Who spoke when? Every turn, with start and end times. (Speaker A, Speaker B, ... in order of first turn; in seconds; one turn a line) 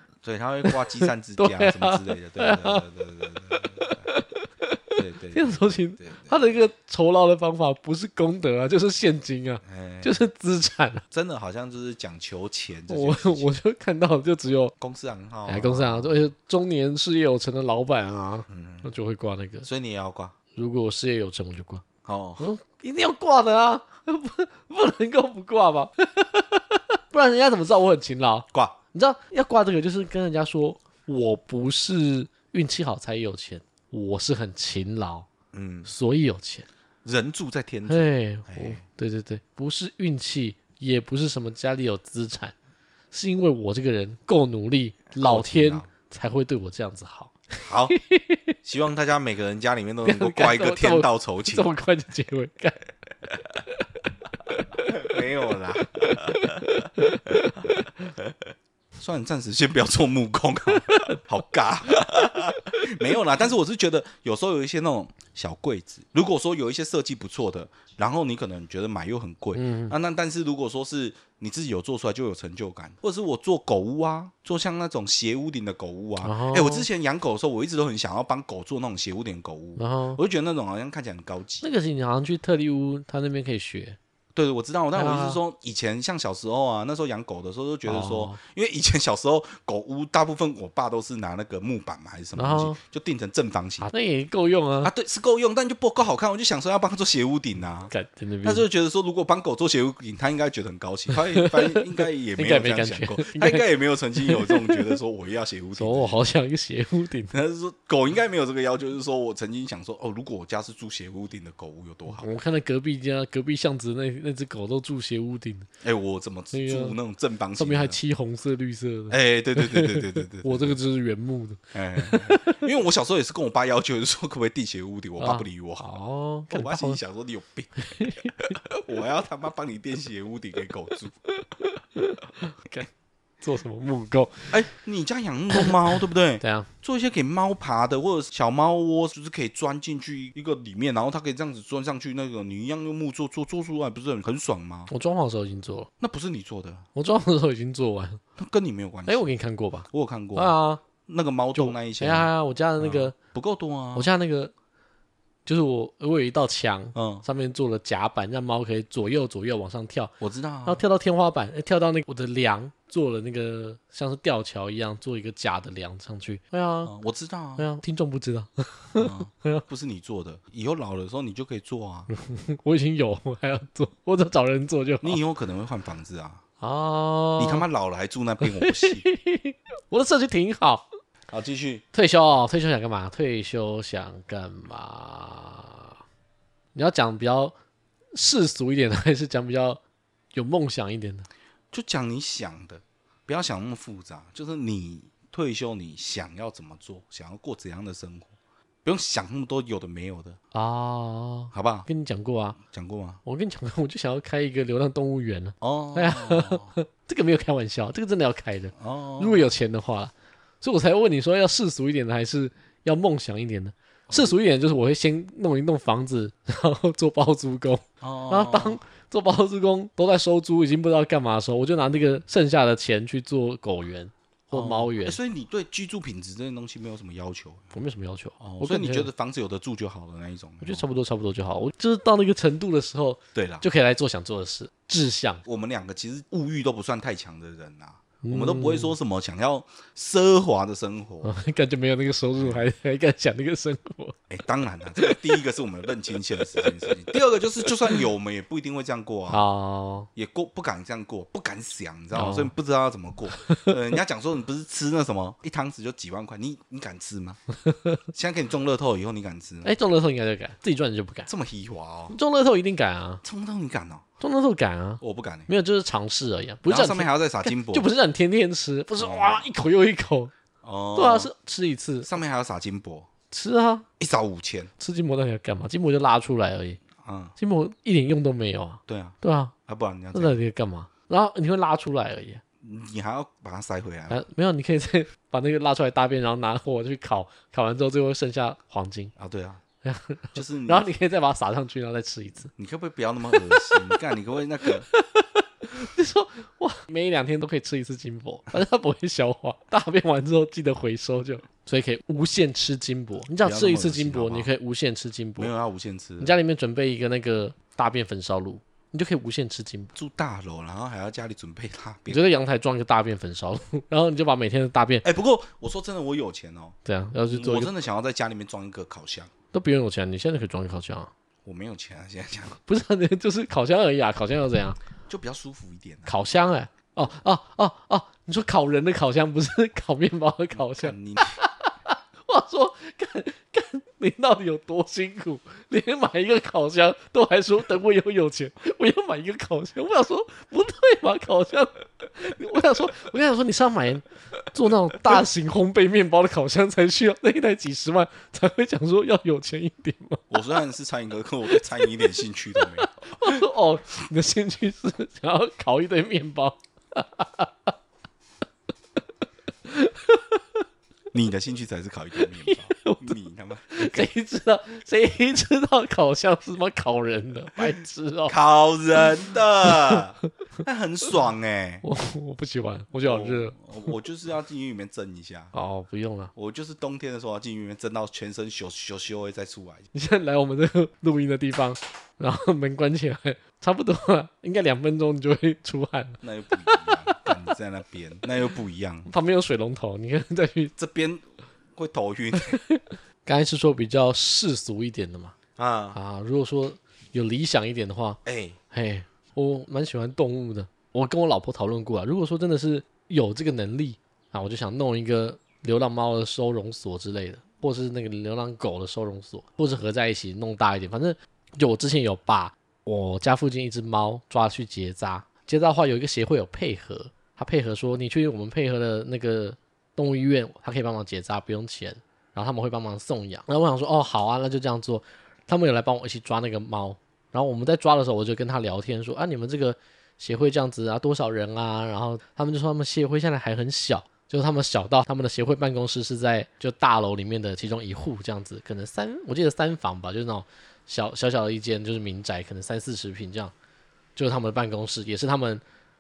Speaker A: 0.2-4.1
Speaker B: 0.6-2.8
Speaker B: 3.5-11.0
Speaker A: 5.0-6.6
Speaker A: 9.6-10.1
Speaker A: 11.1-13.5
Speaker B: 12.9-14.7
Speaker A: 14.8-16.2
Speaker B: 15.5-19.7
Speaker A: 18.5-18.9
Speaker A: 19.6-20.3
Speaker B: 20.6-21.9
Speaker A: 22.1-22.4
Speaker B: 22.4-35.3
Speaker A: 35.5-35.9
Speaker B: 35.9-36.6
Speaker A: 37.0-38.8
Speaker B: 37.9-42.5
Speaker B: 43.1-48.5
Speaker A: 45.2-45.9
Speaker A: 47.6-48.0
Speaker A: 48.6-51.7
Speaker B: 50.0-52.8
Speaker B: 54.5-55.1
Speaker A: 54.8-56.8
Speaker B: 56.0-57.9
Speaker A: 59.0-81.7
Speaker B: 60.7-61.2
Speaker B: 69.5-69.9
Speaker B: 76.2-76.9
Speaker B: 79.8-80.2
Speaker B: 81.6-84.0
Speaker A: 84.3-93.9
Speaker B: 84.9-85.4
Speaker B: 87.9-88.4
Speaker B: 92.4-92.8
Speaker B: 93.8-94.9
Speaker A: 94.8-97.9
Speaker B: 97.9-98.6
Speaker A: 98.4-106.2
Speaker B: 101.1-103.7
Speaker B: 104.2-105.0
Speaker B: 105.8-107.3
Speaker A: 107.3-112.3
Speaker B: 112.1-115.7
Speaker A: 115.8-118.0
Speaker B: 116.5-117.0
Speaker B: 117.5-122.7
Speaker A: 119.1-120.8
Speaker A: 121.7-125.9
Speaker B: 125.2-127.0
Speaker A: 126.5-131.1
Speaker B: 127.8-128.5
Speaker B: 131.4-132.9
Speaker B: 133.4-134.6
Speaker A: 134.5-144.9
Speaker B: 136.4-136.7
Speaker B: 144.9-145.9
Speaker A: 146.0-146.8
Speaker B: 146.9-148.2
Speaker A: 148.4-149.2
Speaker B: 149.1-150.8
Speaker A: 149.9-150.6
Speaker A: 151.1-154.1
Speaker B: 151.6-153.1
Speaker B: 153.9-154.5
Speaker B: 155.4-166.9
Speaker A: 156.9-157.2
Speaker A: 160.2-160.8
Speaker A: 166.8-167.6
Speaker B: 167.6-169.6
Speaker A: 169.0-172.1
Speaker B: 172.1-175.2
Speaker A: 175.0-176.4
Speaker B: 176.6-177.7
Speaker A: 177.4-179.1
Speaker B: 178.4-180.9
Speaker A: 181.3-181.8
Speaker B: 181.9-185.9
Speaker B: 186.7-187.6
Speaker B: 188.1-189.8
Speaker B: 190.3-191.3
Speaker A: 191.7-198.3
Speaker A: 198.8-200.4
Speaker B: 200.5-202.6
Speaker A: 201.5-201.9
Speaker A: 202.6-203.2
Speaker B: 203.2-225.2
Speaker A: 205.6-206.7
Speaker A: 208.8-209.5
Speaker A: 214.1-214.3
Speaker A: 218.0-218.8
Speaker A: 224.5-227.7
Speaker B: 227.7-229.1
Speaker A: 228.4-230.9
Speaker B: 230.6-235.4
Speaker A: 233.3-233.6
Speaker A: 235.4-241.3
Speaker B: 238.2-238.9
Speaker B: 241.2-244.2
Speaker A: 244.3-249.5
Speaker B: 245.0-245.4
Speaker B: 246.6-246.9
Speaker B: 249.3-250.1
Speaker A: 250.2-257.4
Speaker B: 252.1-252.5
Speaker B: 253.4-253.7
Speaker B: 257.6-258.0
Speaker A: 258.1-259.7
Speaker B: 259.6-261.3
Speaker A: 261.3-262.1
Speaker B: 262.1-263.2
Speaker A: 263.2-264.1
Speaker B: 264.2-270.3
Speaker A: 265.0-265.5
Speaker A: 266.6-267.9
Speaker A: 269.0-269.4
Speaker A: 270.6-271.3
Speaker B: 270.9-272.1
Speaker A: 272.0-273.1
Speaker B: 273.3-273.9
Speaker A: 274.0-274.7
Speaker B: 274.8-276.8
Speaker A: 277.0-277.3
Speaker B: 277.4-279.5
Speaker A: 278.9-279.1
Speaker A: 279.7-280.4
Speaker B: 280.1-282.4
Speaker A: 282.6-284.2
Speaker B: 284.1-289.1
Speaker A: 289.1-289.6
Speaker B: 289.8-292.5
Speaker A: 290.3-290.9
Speaker A: 292.6-294.9
Speaker B: 293.3-293.9
Speaker B: 294.6-305.5
Speaker A: 303.4-304.5
Speaker A: 305.4-306.4
Speaker B: 306.2-309.9
Speaker A: 309.9-312.2
Speaker B: 312.1-315.1
Speaker A: 315.0-319.3
Speaker B: 316.8-317.7
Speaker B: 319.5-321.1
Speaker A: 321.4-322.6
Speaker B: 322.6-324.8
Speaker A: 325.1-326.1
Speaker B: 326.1-350.3
Speaker A: 330.6-331.4
Speaker A: 350.3-353.4
Speaker B: 351.5-351.9
Speaker B: 352.6-357.7
Speaker B: 359.6-360.4
Speaker A: 361.1-363.9
Speaker B: 362.2-363.1
Speaker B: 363.7-368.4
Speaker A: 368.3-371.8
Speaker B: 369.6-370.0
Speaker B: 371.8-373.9
Speaker A: 373.0-375.5
Speaker B: 375.5-376.3
Speaker A: 376.3-379.9
Speaker B: 379.9-387.5
Speaker A: 386.2-389.1
Speaker B: 389.1-390.7
Speaker A: 390.8-391.2
Speaker A: 391.7-392.6
Speaker B: 392.4-395.3
Speaker A: 395.6-396.0
Speaker B: 395.9-398.2
Speaker A: 398.2-398.6
Speaker B: 398.7-443.5
Speaker B: 444.1-445.6